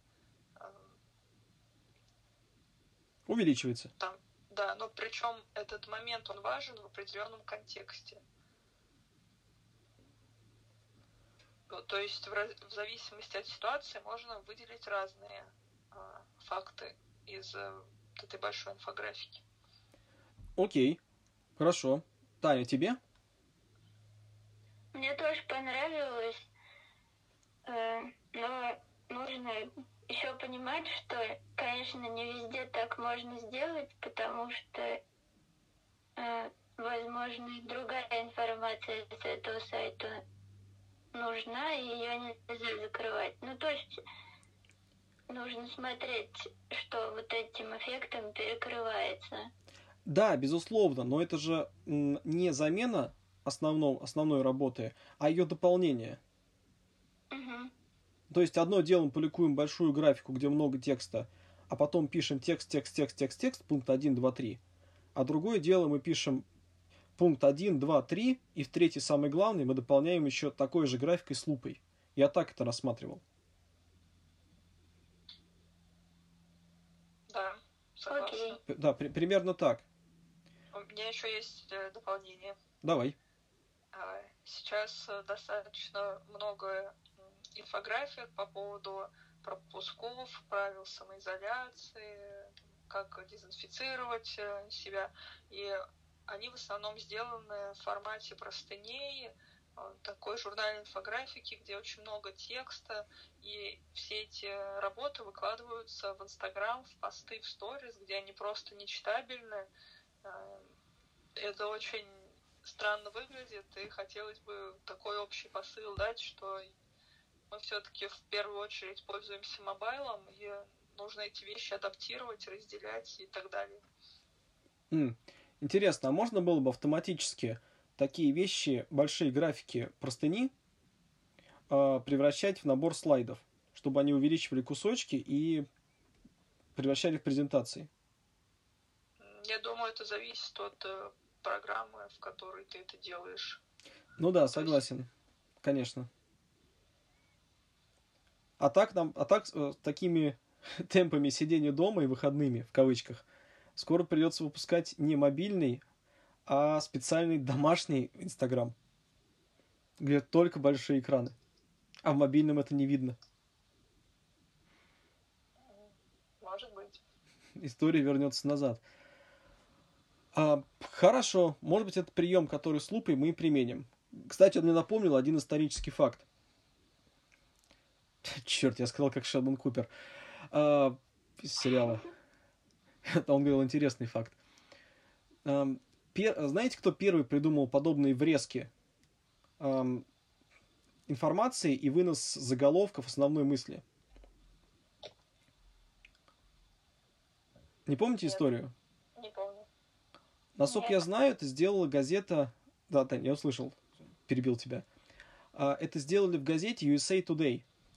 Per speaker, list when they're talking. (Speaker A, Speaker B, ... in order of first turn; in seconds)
Speaker A: 0.6-0.9, 4.0-8.2, 11.7-19.4, 77.3-78.6, 80.7-82.6, 83.9-109.7, 110.2-110.7, 111.4-116.7, 117.5-123.8, 139.2-143.6, 144.5-144.8, 165.6-167.0, 198.2-198.5, 199.2-199.7
Speaker B: 3.3-3.9, 20.6-21.0, 21.6-23.0, 50.0-56.2, 58.3-64.6, 65.1-66.4, 67.2-73.2, 78.7-79.8, 82.8-83.2, 124.9-130.5, 131.7-135.7, 136.8-137.9, 144.2-145.1, 145.6-146.1, 148.6-153.2, 153.8-155.8, 156.5-158.8, 160.0-161.4, 162.0-163.2, 167.6-168.8, 170.3-176.2, 178.2-179.9, 180.5-182.1, 183.1-184.4, 185.4-188.7, 189.6-190.1, 191.1-193.8, 197.9-198.7, 200.6-204.8, 205.6-207.6
Speaker C: 24.9-26.4, 27.6-35.0, 36.2-40.2, 41.1-44.0, 45.3-49.5, 57.3-57.7, 78.1-78.6, 200.7-201.0